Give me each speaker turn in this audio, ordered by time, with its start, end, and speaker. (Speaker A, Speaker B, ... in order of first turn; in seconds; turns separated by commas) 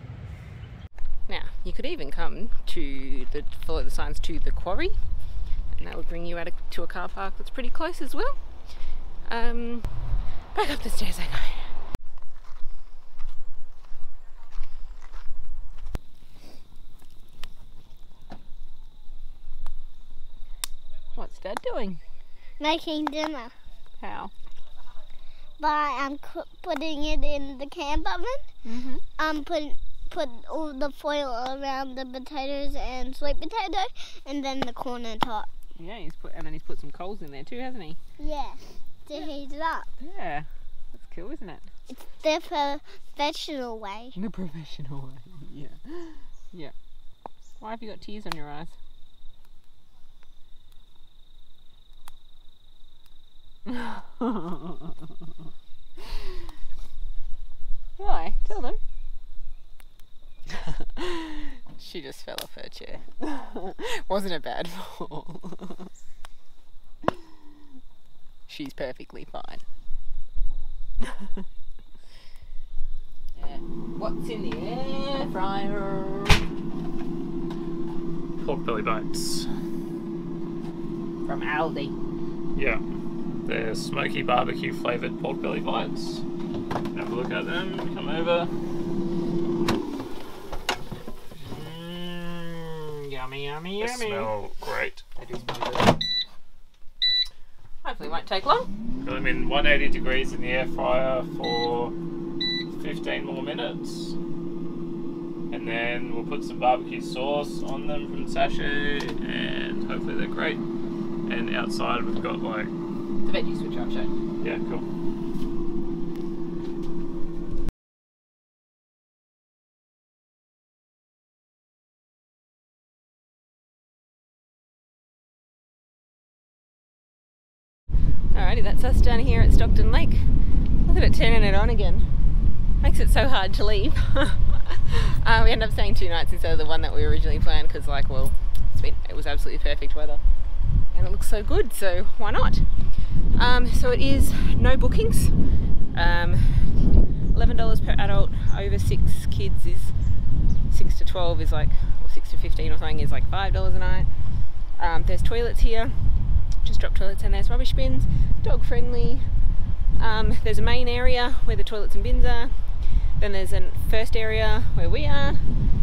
Speaker A: 1.3-5.1, Speaker A: 5.7-11.8, Speaker A: 21.2-22.0, Speaker B: 22.6-23.5, Speaker A: 24.0-24.3, Speaker B: 25.6-28.5, Speaker A: 28.6-29.0, Speaker B: 29.2-35.5, Speaker A: 35.8-38.0, Speaker B: 38.2-39.9, Speaker A: 40.0-41.7, Speaker B: 41.9-44.1, Speaker A: 44.2-46.7, Speaker A: 47.6-48.8, Speaker A: 53.7-54.7, Speaker A: 58.0-58.8, Speaker A: 60.5-65.9, Speaker A: 68.5-69.6, Speaker A: 73.4-76.5, Speaker C: 78.4-79.5, Speaker A: 81.2-82.0, Speaker C: 82.5-82.8, Speaker C: 83.5-86.2, Speaker C: 86.9-88.5, Speaker A: 91.4-94.3, Speaker C: 93.8-95.0, Speaker A: 95.2-96.0, Speaker A: 97.8-98.7, Speaker C: 99.0-101.9, Speaker C: 102.7-104.2, Speaker C: 105.5-110.6, Speaker C: 111.3-112.7, Speaker A: 113.2-114.1, Speaker C: 114.4-114.8, Speaker A: 128.3-132.1, Speaker A: 132.8-140.2, Speaker A: 140.9-149.9, Speaker A: 150.7-154.1, Speaker A: 154.8-156.1, Speaker A: 156.6-159.3, Speaker A: 160.0-165.6